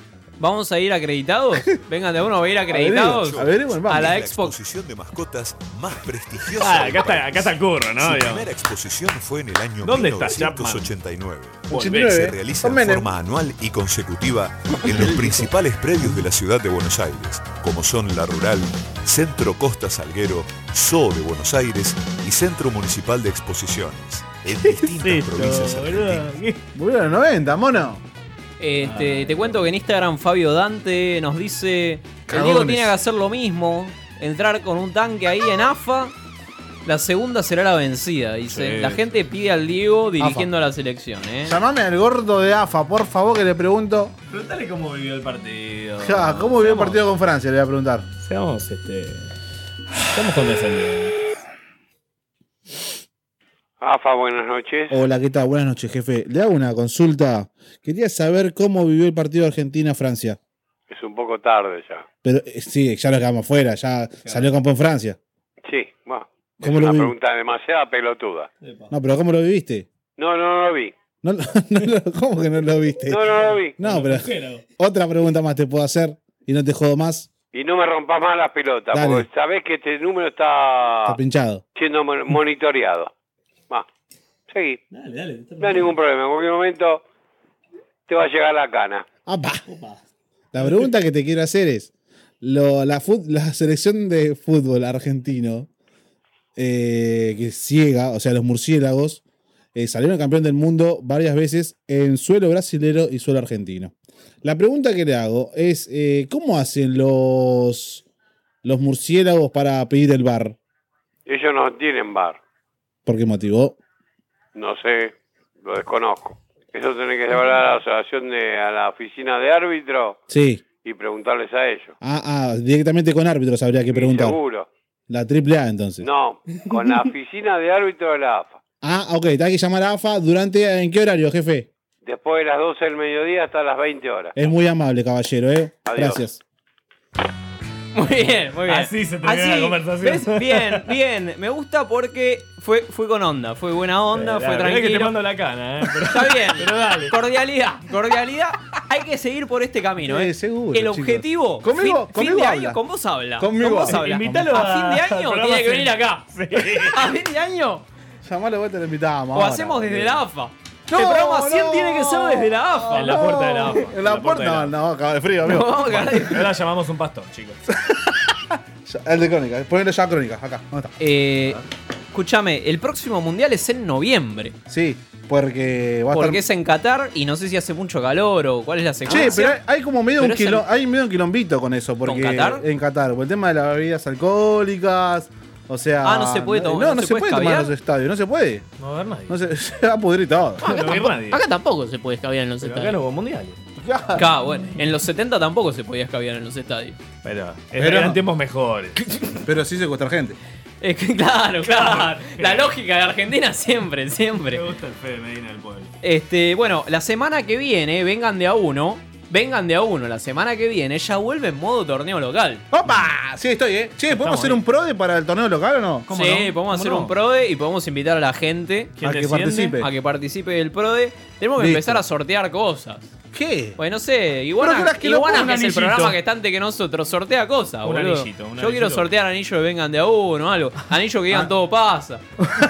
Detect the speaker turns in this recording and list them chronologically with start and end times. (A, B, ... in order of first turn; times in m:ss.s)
0:00.4-0:04.6 A
0:02.7-0:04.1 B
0:03.1-0:26.2 C
0:06.5-0:08.6 D
0:09.8-0:10.9 D
0:11.7-0:12.3 D
0:11.7-0:13.1 B
0:15.1-0:15.4 D
0:24.5-0:26.6 D
0:26.8-0:28.0 B
0:28.6-0:36.1 A
0:28.8-0:29.6 D
0:32.3-0:32.9 B
0:36.8-0:41.6 A
0:38.5-0:39.1 D
0:40.2-0:40.5 B
0:41.4-0:44.1 B
0:44.3-0:47.0 D
0:46.0-0:48.1 B
0:48.2-0:49.4 D
0:50.1-0:51.3 D
0:53.8-0:55.0 E
0:54.9-1:00.4 B
1:00.9-1:02.0 E
1:02.2-1:05.2 B
1:05.6-1:08.5 E
1:06.6-1:07.1 B
1:08.6-1:08.9 D
1:08.9-1:09.9 B
1:10.2-1:10.9 E
1:11.2-1:17.3 B
1:13.1-1:13.7 E
1:13.8-1:14.6 D
1:17.5-1:21.2 E
1:18.9-1:19.2 B
1:21.0-1:21.6 B
1:21.8-1:23.1 E
1:24.5-1:24.8 E
1:24.9-1:25.9 D
1:25.6-1:27.0 E
1:28.1-1:29.0 E
1:29.2-1:29.6 B
1:29.7-1:30.0 D
1:30.5-1:31.9 B
1:32.4-1:35.7 B
1:36.6-1:39.2 B
1:39.7-1:43.9 B
1:44.4-1:48.0 B
1:48.6-1:50.6 B
1:51.2-1:52.4 E
1:53.0-1:53.8 B
1:54.5-2:00.2 E
2:00.3-2:00.6 B
2:00.8-2:01.9 E
2:02.0-2:04.4 B
2:03.9-2:04.7 E
2:05.1-2:06.1 B
2:06.0-2:08.6 E
2:08.8-2:11.7 B
2:12.0-2:14.4 E
2:14.4-2:16.4 B
2:15.9-2:16.2 E
2:18.0-2:25.1 A
2:18.7-2:20.8 D
2:24.1-2:27.1 D
2:26.1-2:37.8 A
2:30.0-2:32.8 B
2:33.4-2:34.5 B
2:33.8-2:37.1 D
2:38.2-2:40.2 B
2:39.3-2:43.5 A
2:40.9-2:45.7 B
2:42.9-2:44.8 D
2:45.4-2:46.4 A
2:45.9-2:47.6 D
2:47.7-2:50.9 B
2:51.0-2:51.6 A
2:52.1-2:54.6 A
2:54.7-2:56.4 B
2:56.1-2:59.6 A
2:59.1-3:08.6 B
3:00.2-3:00.6 A
3:02.0-3:02.6 A
3:06.0-3:07.7 A
3:08.8-3:09.4 D
3:09.3-3:10.6 B
3:10.6-3:12.9 A
3:10.6-3:11.4 D
3:12.6-3:13.6 D
3:13.8-3:14.3 B
3:14.2-3:17.0 A
3:17.2-3:19.2 D
3:17.8-3:18.2 B
3:19.4-3:20.4 B
3:20.8-3:24.6 A
3:21.6-3:22.8 D
3:24.5-3:25.9 D
3:26.0-3:32.6 A
3:32.7-3:36.5 B
3:34.1-3:34.6 D
3:36.1-3:38.9 A
3:36.2-3:37.1 D
3:39.0-3:39.7 D
3:39.0-3:39.9 B
3:39.7-3:43.1 A
3:41.6-3:42.0 B
3:43.3-3:43.8 B
3:43.8-3:52.2 A
3:44.6-3:45.6 B
3:45.3-3:46.2 D
3:47.8-3:49.1 D